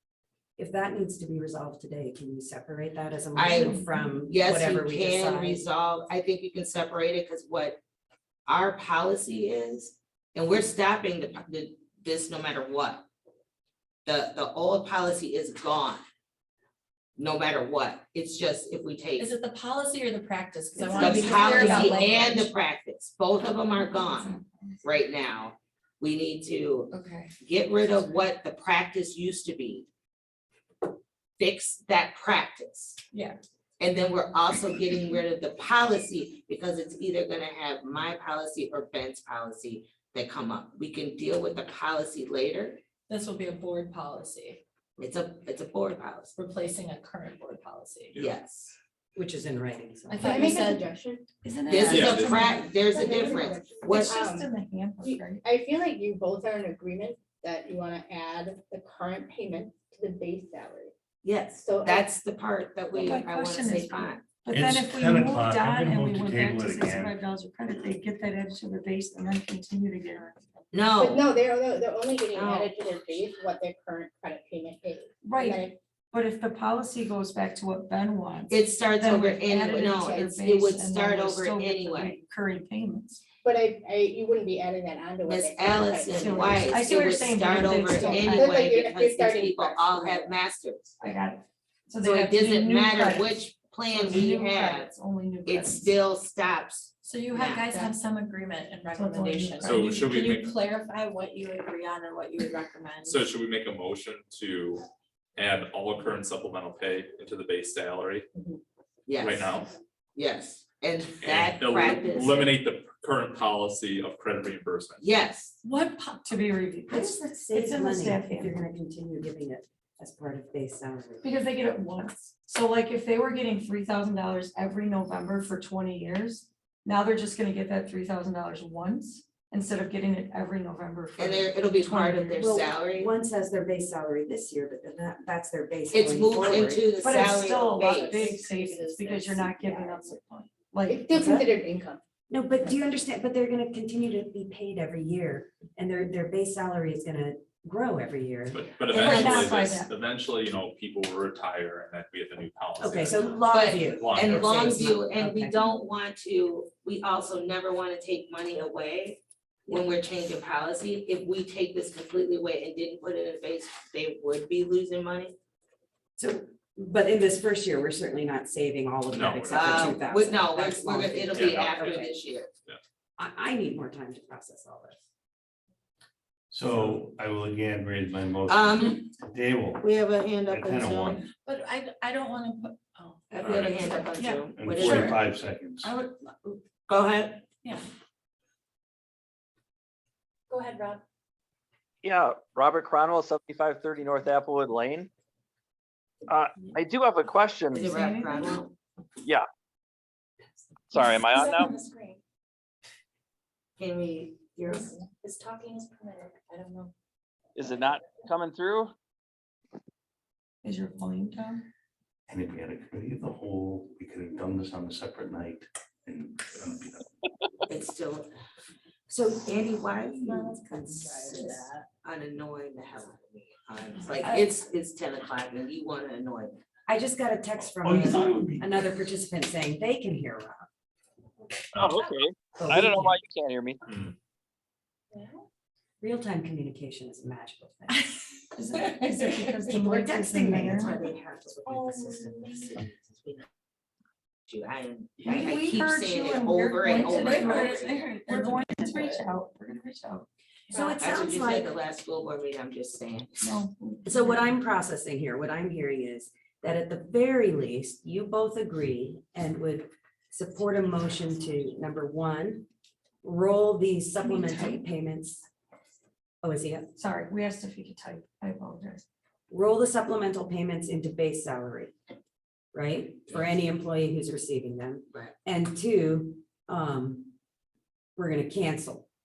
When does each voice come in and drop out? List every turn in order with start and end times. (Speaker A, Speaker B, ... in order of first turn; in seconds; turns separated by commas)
Speaker A: 0.6-5.6, Speaker B: 3.3-7.8, Speaker C: 3.4-4.1, Speaker B: 8.4-13.0, Speaker B: 14.0-16.0, Speaker B: 17.2-19.3, Speaker D: 19.2-22.5, Speaker A: 20.8-22.0, Speaker C: 20.8-22.2, Speaker B: 21.0-29.9, Speaker C: 23.8-24.8, Speaker C: 26.9-27.3, Speaker B: 31.4-33.0, Speaker B: 33.8-42.8, Speaker D: 43.1-44.6, Speaker B: 45.0-46.3, Speaker D: 46.3-48.1, Speaker B: 48.1-48.8, Speaker A: 49.1-50.5, Speaker D: 50.1-50.8, Speaker E: 50.2-51.3, Speaker C: 51.4-55.4, Speaker B: 51.7-54.2, Speaker F: 51.9-52.6, Speaker E: 52.9-60.9, Speaker B: 61.2-64.2, Speaker E: 61.6-62.1, Speaker C: 62.9-70.4, Speaker G: 64.5-67.2, Speaker B: 70.7-71.2, Speaker E: 71.0-75.8, Speaker B: 72.3-72.8, Speaker C: 75.2-83.2, Speaker B: 78.5-82.1, Speaker E: 79.9-80.3, Speaker E: 83.4-86.7, Speaker B: 85.2-91.0, Speaker C: 86.2-88.6, Speaker E: 87.8-90.3, Speaker C: 91.0-96.0, Speaker B: 92.0-94.9, Speaker B: 95.4-97.7, Speaker D: 97.0-103.2, Speaker C: 97.7-97.9, Speaker C: 98.9-100.2, Speaker F: 99.6-100.6, Speaker F: 103.0-104.8, Speaker F: 105.3-108.2, Speaker B: 109.0-109.6, Speaker F: 109.2-109.7, Speaker B: 110.1-112.5, Speaker F: 111.2-115.0, Speaker B: 115.0-115.6, Speaker D: 115.6-116.2, Speaker C: 116.2-118.6, Speaker A: 116.9-121.2, Speaker C: 121.2-132.5, Speaker B: 131.2-133.1, Speaker A: 132.4-137.0, Speaker B: 135.9-138.4, Speaker C: 136.8-141.1, Speaker E: 137.4-140.2, Speaker E: 140.8-142.0, Speaker A: 141.1-141.5, Speaker A: 142.3-148.6, Speaker F: 148.5-154.8, Speaker C: 148.9-149.9, Speaker B: 148.9-149.5, Speaker A: 152.8-155.6, Speaker B: 153.5-165.3, Speaker A: 166.2-172.1, Speaker F: 169.1-170.0, Speaker B: 169.5-172.5, Speaker F: 171.3-172.1, Speaker A: 173.2-175.0, Speaker G: 176.5-179.8, Speaker B: 178.5-179.1, Speaker B: 179.8-181.2, Speaker G: 180.5-181.3, Speaker D: 181.3-185.2, Speaker B: 183.3-185.2, Speaker F: 183.4-183.9, Speaker G: 184.5-185.9, Speaker B: 186.9-187.4, Speaker D: 190.5-191.0, Speaker H: 192.0-195.1, Speaker H: 196.3-197.9, Speaker B: 197.7-198.8, Speaker C: 197.8-198.6, Speaker H: 200.9-201.7, Speaker D: 200.9-202.2, Speaker B: 203.8-204.9, Speaker D: 204.7-206.9, Speaker H: 207.5-208.9, Speaker C: 210.6-211.6, Speaker G: 212.3-217.1, Speaker B: 217.7-218.3, Speaker A: 219.1-221.6, Speaker B: 219.2-226.6, Speaker A: 226.9-230.7, Speaker G: 227.8-228.8, Speaker H: 231.8-233.8, Speaker A: 232.6-233.2, Speaker F: 233.8-234.1, Speaker A: 236.0-238.2, Speaker C: 238.5-240.9, Speaker A: 239.7-241.1, Speaker B: 240.7-243.5, Speaker B: 244.5-248.1, Speaker C: 245.2-250.3, Speaker D: 247.1-247.7, Speaker D: 248.3-249.1, Speaker A: 250.7-251.7, Speaker B: 251.0-253.5, Speaker C: 253.4-254.5, Speaker A: 254.0-262.7, Speaker A: 263.2-265.5, Speaker C: 264.2-264.8, Speaker A: 266.4-266.9, Speaker C: 266.9-269.0, Speaker A: 269.5-271.9, Speaker A: 272.7-277.3, Speaker A: 278.2-279.1